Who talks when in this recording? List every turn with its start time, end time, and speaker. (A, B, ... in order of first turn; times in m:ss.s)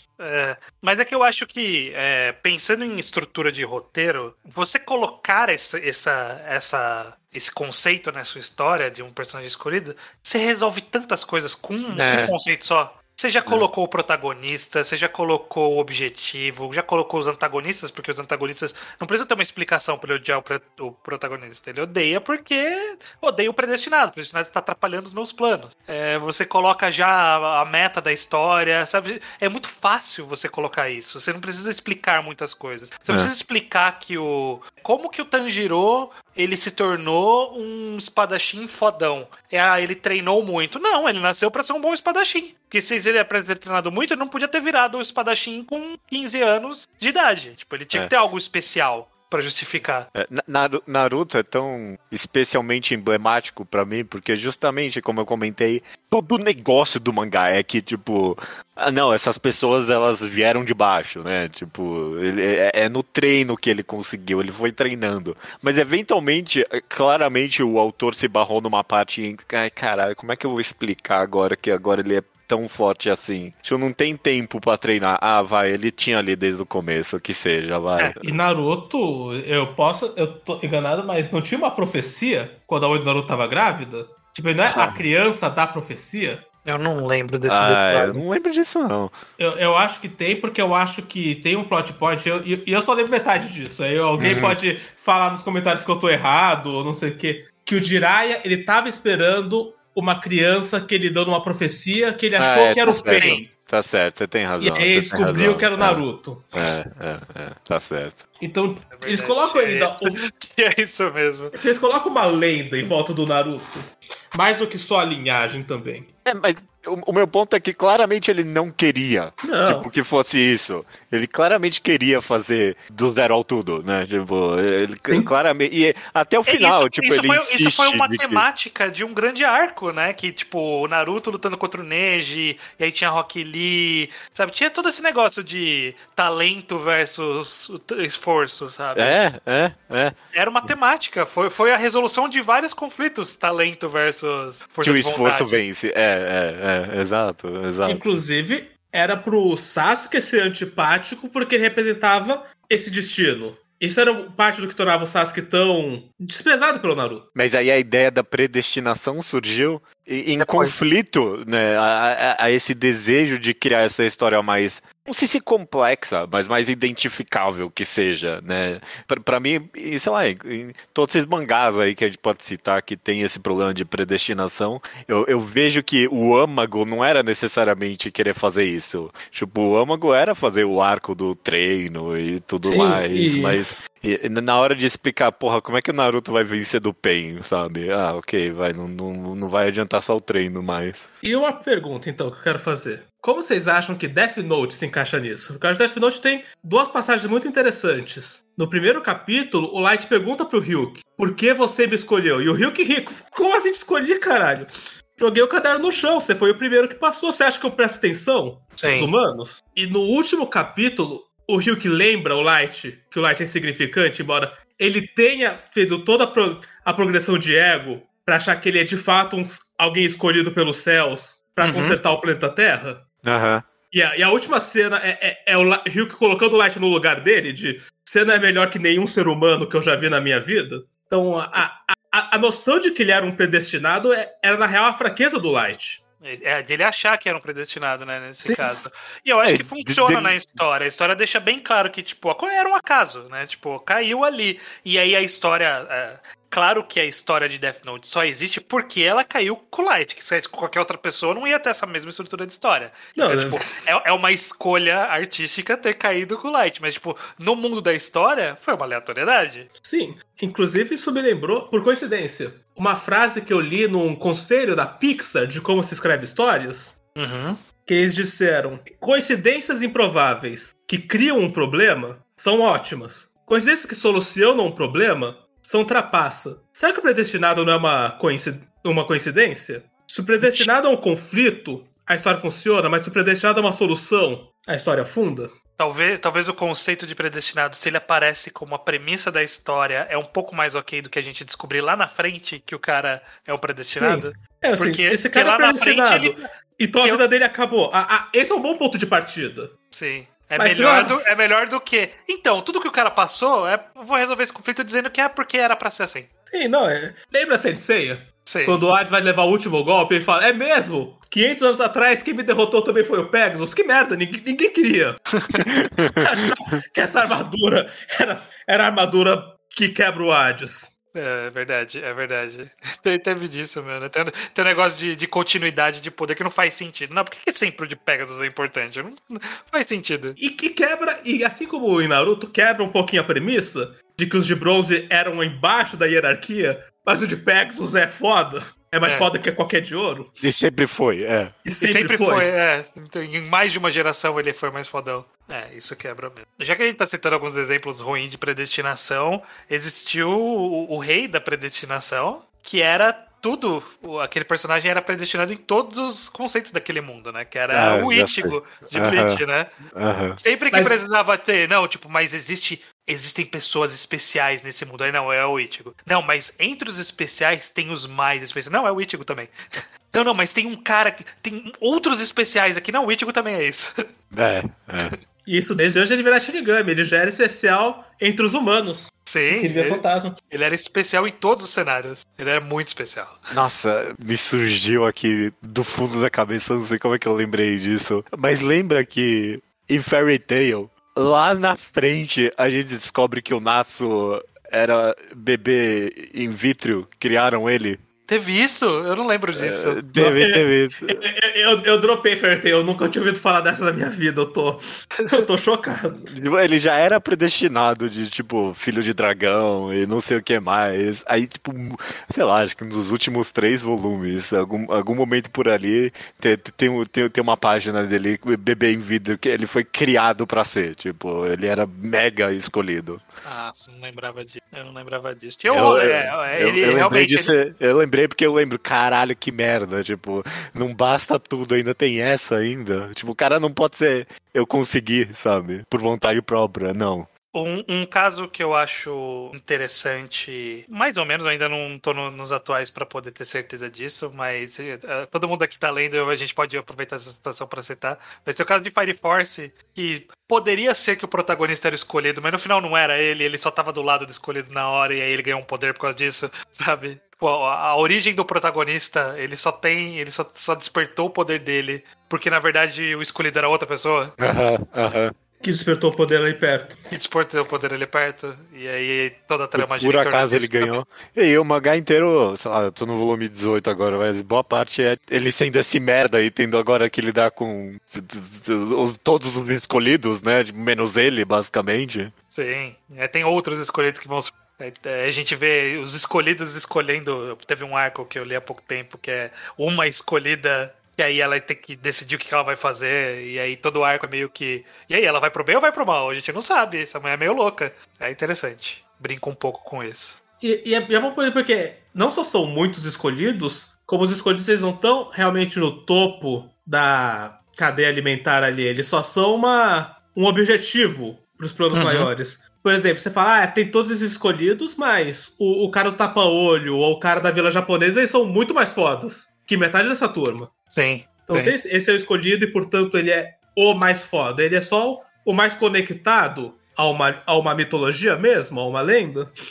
0:00.2-0:50.1 A
0:11.9-0:12.3 B
0:50.1-1:18.4 B
1:18.2-1:26.4 C
1:24.7-1:25.0 B
1:26.6-1:28.2 A
1:27.4-1:29.1 B
1:29.4-1:43.5 C
1:34.2-1:34.6 B
1:42.4-1:46.0 B
1:43.1-1:43.4 A
1:44.6-1:46.5 C
1:46.5-1:48.2 B
1:48.4-1:50.2 C
1:48.9-1:51.6 A
1:51.5-1:56.1 C
1:56.2-2:08.4 B
1:59.4-1:59.9 C
2:05.0-2:05.3 C
2:06.5-2:19.2 A
2:18.9-2:20.7 B
2:20.3-2:25.6 A
2:24.8-2:28.0 B
2:27.8-2:37.2 C
2:37.3-3:11.1 B
2:40.4-2:40.7 A
3:02.6-3:03.6 C
3:11.2-3:43.0 C
3:28.8-3:29.1 A
3:41.6-3:42.0 A
3:43.2-3:43.6 B
3:43.9-3:56.0 C
3:56.2-4:19.7 A
3:58.4-3:58.7 C
3:59.4-4:00.4 B
4:13.1-4:13.6 C
4:19.8-4:27.0 C
4:27.1-4:27.6 A
4:27.8-4:45.5 C
4:40.4-4:40.7 A
4:45.8-4:56.5 A
4:53.9-4:59.7 C
4:59.9-5:06.3 A
5:00.6-5:01.3 C
5:06.5-5:15.2 C
5:08.4-5:08.8 A
5:15.8-5:16.2 B
5:16.2-5:20.9 C
5:21.1-5:30.4 A
5:30.4-5:40.3 C
5:39.0-5:39.3 A
5:40.4-5:41.6 B
5:41.6-5:42.5 C
5:41.8-5:59.7 A
5:57.7-6:00.4 B
6:00.4-6:13.9 A
6:14.3-6:15.2 B
6:15.4-6:20.4 C
6:19.2-6:23.4 A
6:23.5-6:38.0 B
6:38.3-6:40.0 A
6:39.5-6:41.2 B
6:40.1-6:46.2 C
6:46.2-7:03.2 B
7:03.4-7:07.5 A
7:05.7-7:17.3 B
7:17.5-7:44.3 A
7:44.4-7:45.3 B
7:45.6-7:47.0 C
7:47.1-7:51.0 A
7:49.7-8:02.3 B
8:02.5-8:20.4 A
8:20.6-8:40.7 C
8:31.9-8:32.3 A
8:40.9-8:41.7 A
8:41.5-8:49.5 C